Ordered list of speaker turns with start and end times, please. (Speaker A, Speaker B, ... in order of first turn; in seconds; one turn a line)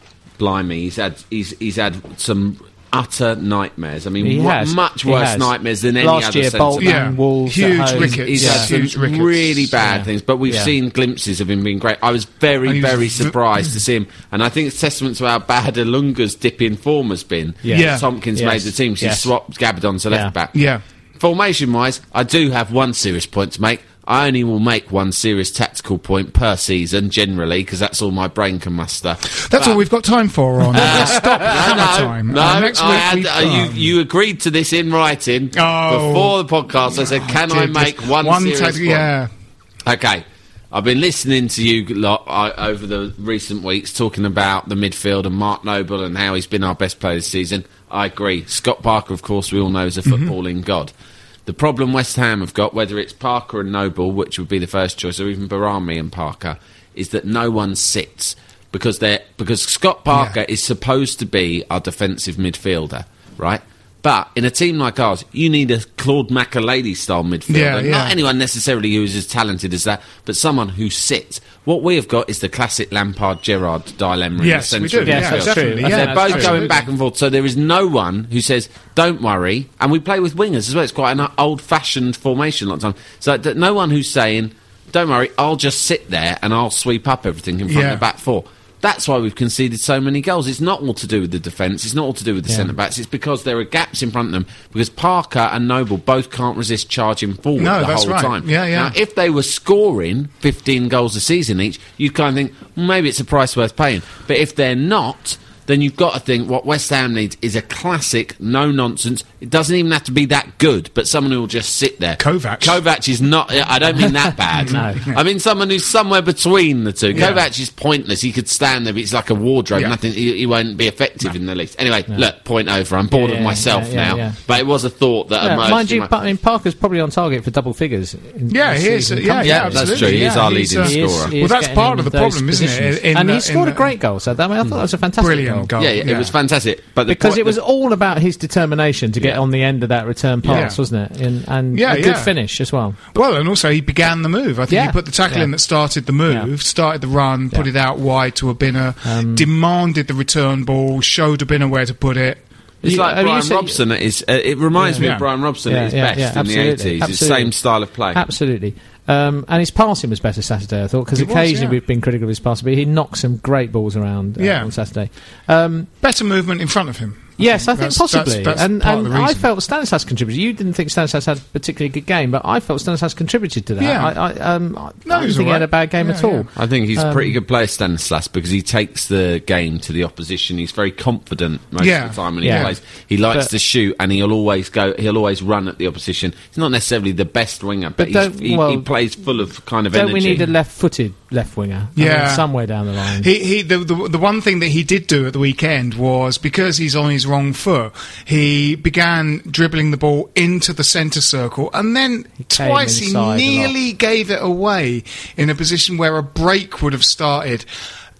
Speaker A: 0.4-7.0
Speaker B: 4.2-8.7
Speaker C: 6.8-9.8
Speaker A: 7.9-20.6
Speaker B: 9.8-10.7
Speaker C: 12.6-13.3
Speaker B: 17.6-19.3
Speaker C: 17.7-18.0
Speaker C: 20.5-20.8
Speaker A: 21.2-29.8
Speaker C: 29.4-33.9
Speaker A: 30.7-39.1
Speaker C: 35.5-36.4
Speaker C: 36.9-39.3
Speaker A: 39.8-50.9
Speaker C: 50.0-50.3
Speaker A: 51.5-126.1
Speaker C: 67.5-68.2
Speaker C: 74.4-76.7
Speaker B: 75.0-76.7
Speaker C: 87.7-88.0
Speaker C: 97.6-98.9
Speaker C: 112.2-112.8
Speaker B: 114.6-115.0
Speaker C: 114.6-115.2
Speaker C: 117.1-117.4
Speaker B: 117.2-117.4
Speaker B: 123.1-124.4
Speaker B: 125.4-135.7
Speaker C: 128.5-133.9
Speaker A: 129.4-131.3
Speaker C: 135.2-136.3
Speaker A: 135.8-137.6
Speaker B: 137.1-143.0
Speaker C: 140.4-140.8
Speaker C: 141.7-142.3
Speaker C: 143.1-152.4
Speaker B: 144.7-145.5
Speaker B: 149.0-149.5
Speaker B: 152.8-153.8
Speaker A: 152.8-158.2
Speaker B: 154.8-155.1
Speaker C: 155.0-155.2
Speaker B: 155.7-157.5
Speaker B: 158.1-165.9
Speaker C: 161.1-161.8
Speaker C: 164.4-164.7
Speaker C: 166.0-169.4
Speaker B: 167.4-177.3
Speaker C: 173.8-174.2
Speaker C: 175.0-176.5
Speaker A: 176.5-190.4
Speaker C: 181.8-182.8
Speaker B: 182.4-182.7
Speaker B: 188.0-188.8
Speaker B: 189.9-193.3
Speaker C: 191.9-192.4
Speaker C: 193.2-207.7
Speaker B: 202.4-203.7